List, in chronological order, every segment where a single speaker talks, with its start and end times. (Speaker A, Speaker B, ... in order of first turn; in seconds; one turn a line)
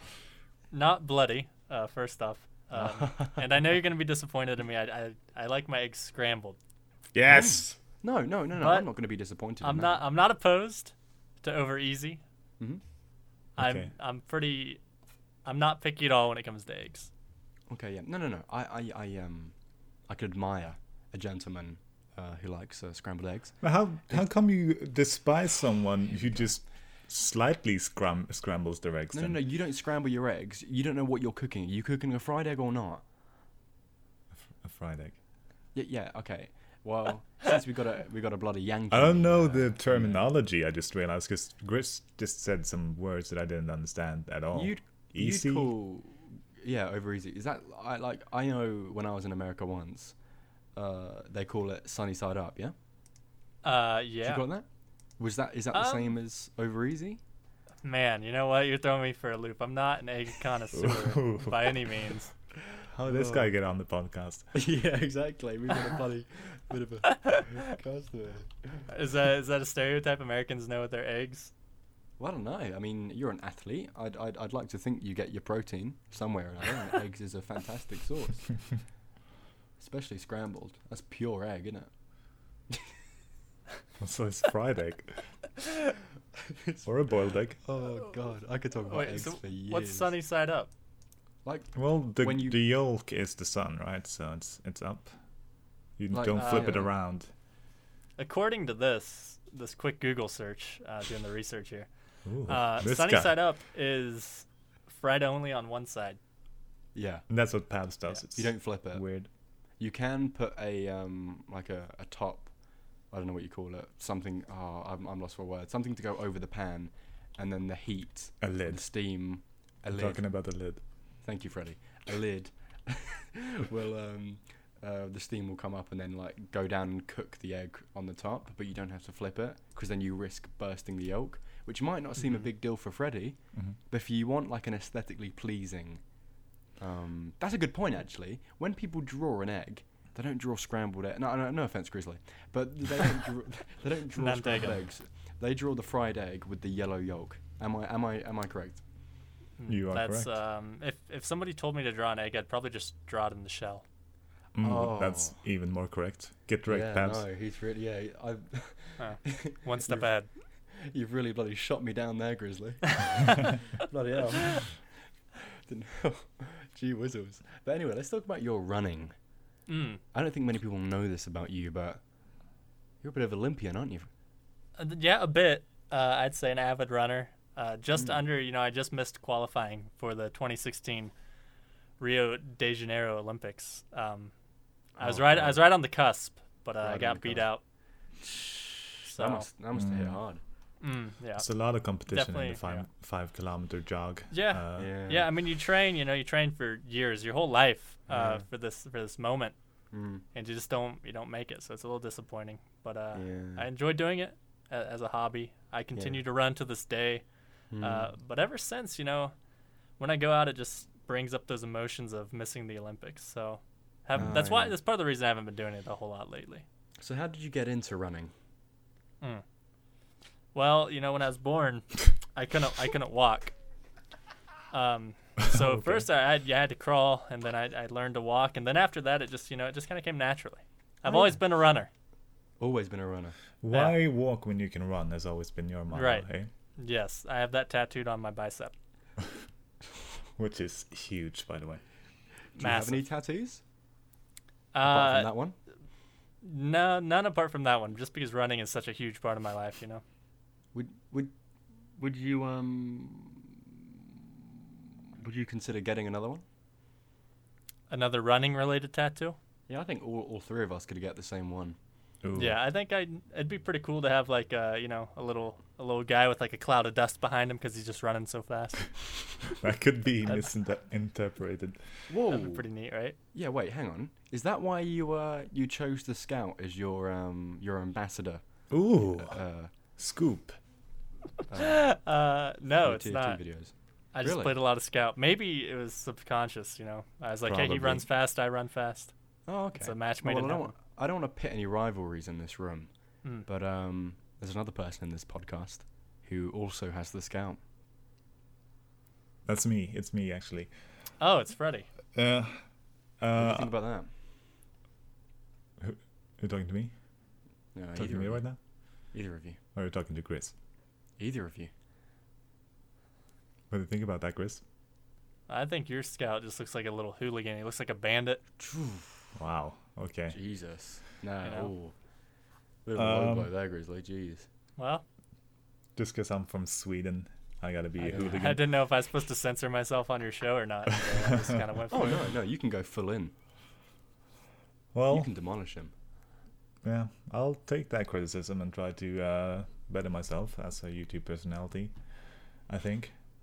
Speaker A: 0.7-6.6
Speaker B: 2.8-3.4
Speaker C: 7.1-7.8
Speaker B: 7.3-10.0
Speaker A: 8.6-8.9
Speaker A: 9.6-12.2
Speaker C: 13.6-13.9
Speaker A: 13.6-14.8
Speaker A: 15.4-17.1
Speaker B: 17.7-19.5
Speaker B: 20.1-24.2
Speaker C: 23.6-29.4
Speaker B: 29.1-33.0
Speaker C: 34.4-35.1
Speaker B: 35.7-40.2
Speaker C: 38.9-45.7
Speaker B: 44.5-50.1
Speaker B: 50.8-52.7
Speaker A: 53.6-54.4
Speaker B: 54.2-54.7
Speaker B: 55.2-57.2
Speaker A: 55.7-56.1
Speaker A: 57.8-62.3
Speaker C: 60.7-61.8
Speaker C: 62.9-64.5
Speaker B: 63.1-63.5
Speaker B: 64.5-68.8
Speaker A: 68.9-71.5
Speaker B: 72.2-78.5
Speaker B: 79.8-81.9
Speaker C: 84.0-85.2
Speaker B: 86.5-90.1
Speaker C: 86.8-87.6
Speaker A: 88.9-90.7
Speaker B: 91.4-92.6
Speaker C: 91.7-95.1
Speaker C: 96.0-97.3
Speaker B: 96.1-96.9
Speaker A: 96.3-96.8
Speaker A: 98.2-101.9
Speaker C: 102.2-103.3
Speaker A: 102.5-106.2
Speaker B: 106.9-107.2
Speaker C: 107.3-109.3
Speaker B: 108.3-109.0
Speaker B: 109.8-112.5
Speaker B: 113.1-120.2
Speaker C: 118.4-118.8
Speaker C: 119.9-120.8
Speaker B: 121.2-133.4
Speaker B: 133.9-136.0
Speaker B: 136.8-148.8
Speaker A: 144.2-144.8
Speaker A: 149.6-153.8
Speaker C: 149.7-150.3
Speaker C: 154.5-157.2
Speaker B: 154.6-155.3
Speaker B: 156.7-160.1
Speaker A: 159.0-160.3
Speaker B: 160.7-164.9
Speaker B: 165.7-169.1
Speaker A: 169.7-170.0
Speaker B: 170.1-172.0
Speaker B: 173.0-174.1
Speaker A: 174.8-181.1
Speaker B: 177.9-178.2
Speaker A: 182.0-184.3
Speaker B: 185.0-185.6
Speaker A: 185.0-187.6
Speaker B: 186.8-187.5
Speaker B: 188.2-190.4
Speaker A: 189.0-189.5
Speaker C: 189.7-190.2
Speaker A: 190.8-191.5
Speaker C: 191.4-194.9
Speaker A: 192.1-192.8
Speaker A: 194.3-199.5
Speaker B: 194.8-195.3
Speaker B: 198.1-198.4
Speaker B: 199.9-200.2
Speaker A: 200.3-207.2
Speaker B: 203.1-203.7
Speaker B: 205.9-206.2
Speaker B: 207.7-208.1
Speaker A: 207.8-209.3
Speaker A: 210.0-216.6
Speaker B: 214.2-214.8
Speaker B: 217.0-218.3
Speaker A: 220.5-223.5
Speaker A: 224.7-231.9
Speaker C: 225.4-226.1
Speaker B: 231.0-231.3
Speaker B: 232.6-233.3
Speaker C: 233.6-236.5
Speaker A: 233.7-234.0
Speaker A: 235.9-236.2
Speaker A: 236.8-238.7
Speaker C: 240.4-241.8
Speaker B: 242.5-243.6
Speaker A: 242.6-243.0
Speaker A: 244.7-245.3
Speaker B: 244.8-245.6
Speaker A: 246.4-250.0
Speaker B: 250.7-251.3
Speaker B: 252.0-253.8
Speaker B: 255.2-256.4
Speaker A: 257.9-259.4
Speaker B: 259.7-261.8
Speaker C: 262.2-262.6
Speaker A: 262.4-269.4
Speaker C: 269.6-271.8
Speaker B: 272.1-272.6
Speaker A: 272.3-273.1
Speaker B: 273.3-278.4
Speaker C: 278.7-279.4
Speaker B: 279.0-279.7
Speaker C: 280.0-280.6
Speaker B: 281.5-281.9
Speaker A: 281.5-283.4
Speaker B: 282.8-284.5
Speaker A: 284.1-289.1
Speaker C: 287.4-288.1
Speaker B: 289.5-292.9
Speaker A: 289.8-290.7
Speaker B: 293.4-297.6
Speaker C: 299.4-300.7
Speaker A: 301.2-301.9
Speaker C: 302.1-302.6
Speaker C: 303.2-303.7
Speaker B: 303.3-304.1
Speaker C: 305.8-306.9
Speaker B: 307.7-308.4
Speaker C: 307.9-308.6
Speaker B: 309.1-309.6
Speaker C: 309.7-310.5
Speaker B: 311.2-311.7
Speaker C: 313.7-314.6
Speaker A: 315.5-318.4
Speaker B: 318.6-319.2
Speaker C: 319.4-320.4
Speaker B: 320.3-321.9
Speaker A: 321.4-321.7
Speaker B: 322.8-324.5
Speaker C: 322.9-323.5
Speaker A: 324.8-325.0
Speaker C: 325.9-328.6
Speaker B: 328.0-328.4
Speaker A: 328.1-332.3
Speaker C: 331.2-331.5
Speaker B: 331.9-333.3
Speaker C: 334.9-335.3
Speaker B: 335.1-335.9
Speaker C: 336.8-341.9
Speaker C: 342.7-343.1